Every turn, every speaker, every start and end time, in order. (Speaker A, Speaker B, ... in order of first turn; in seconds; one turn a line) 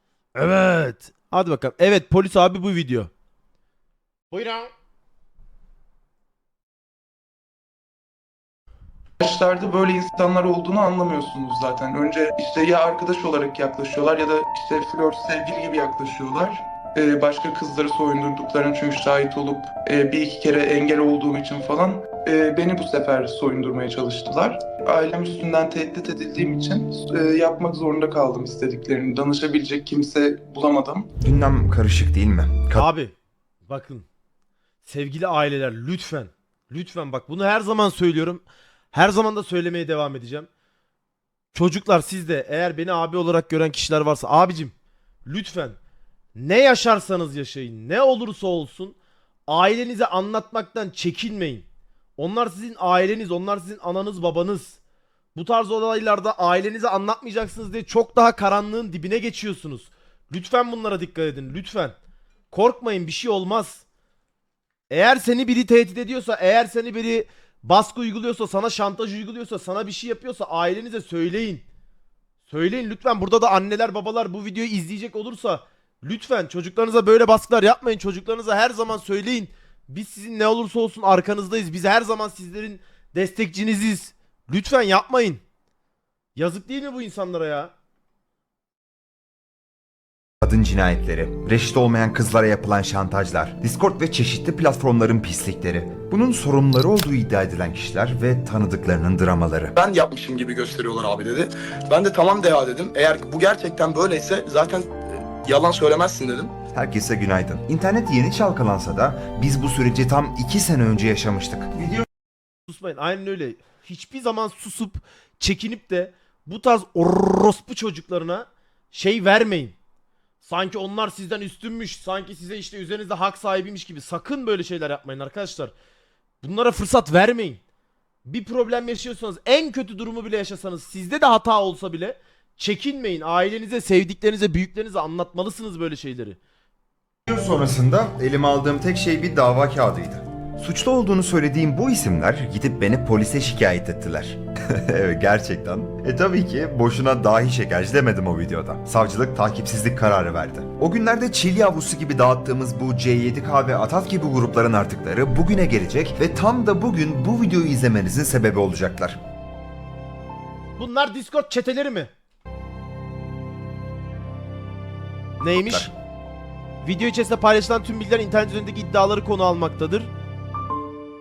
Speaker A: 0.3-3.1
Speaker A: 4.3-4.7
Speaker B: 9.2-31.1
Speaker C: 31.2-32.9
Speaker A: 32.7-33.1
Speaker A: 33.7-34.0
Speaker A: 34.8-40.5
Speaker A: 41.5-44.7
Speaker A: 45.2-45.8
Speaker A: 46.4-49.0
Speaker A: 49.5-51.6
Speaker A: 52.2-54.8
Speaker A: 55.3-62.0
Speaker A: 62.5-63.8
Speaker A: 64.9-71.6
Speaker A: 72.5-85.4
Speaker A: 86.3-87.7
Speaker C: 90.4-99.7
Speaker D: 99.8-106.5
Speaker C: 106.7-111.9
Speaker A: 112.7-119.8
Speaker A: 120.4-125.7
Speaker A: 126.4-127.6
Speaker A: 128.2-136.4
Speaker C: 137.3-159.2
Speaker A: 160.8-162.1
Speaker A: 165.4-165.9
Speaker C: 165.5-165.9
Speaker A: 166.8-170.1